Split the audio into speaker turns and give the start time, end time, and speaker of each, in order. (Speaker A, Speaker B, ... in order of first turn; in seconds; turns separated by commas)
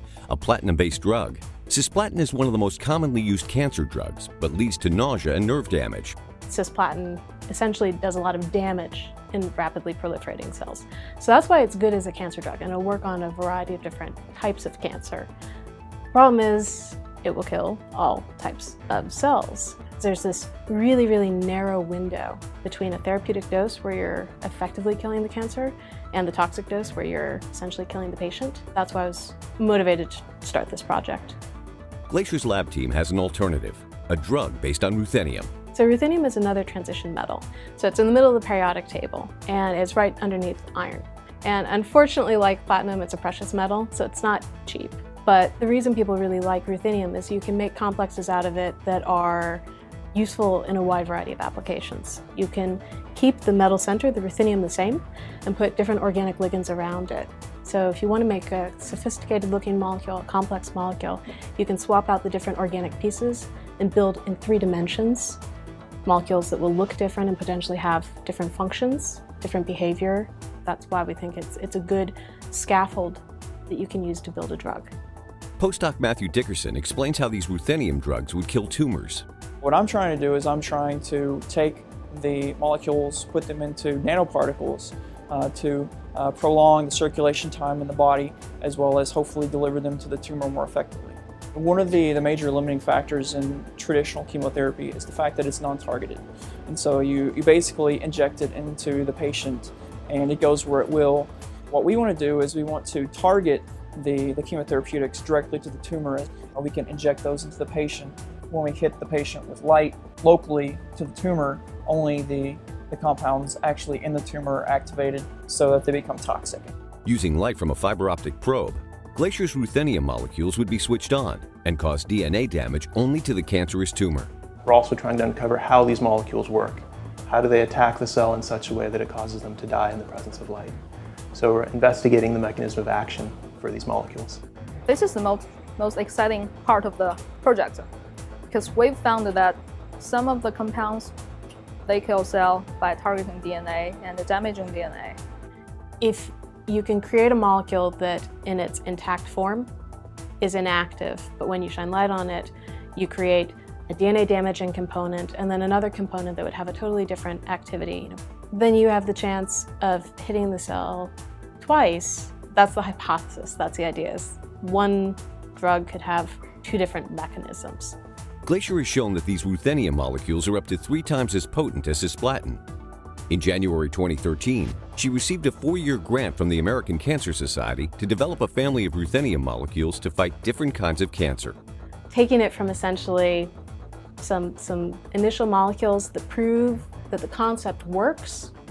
Speaker A: 0.3-6.2, Speaker B: 6.5-15.3, Speaker B: 16.1-31.4, Speaker A: 32.1-35.5, Speaker B: 35.7-65.4, Speaker B: 66.1-74.9, Speaker A: 75.6-79.2, Speaker C: 79.6-116.7, Speaker A: 117.0-124.3, Speaker D: 124.7-130.8, Speaker D: 131.3-134.4, Speaker E: 134.9-137.9, Speaker E: 138.5-141.1, Speaker E: 141.9-145.2, Speaker B: 146.0-149.7, Speaker B: 150.4-168.0, Speaker A: 168.4-172.6, Speaker A: 173.3-181.6, Speaker B: 182.1-183.5, Speaker B: 184.2-188.5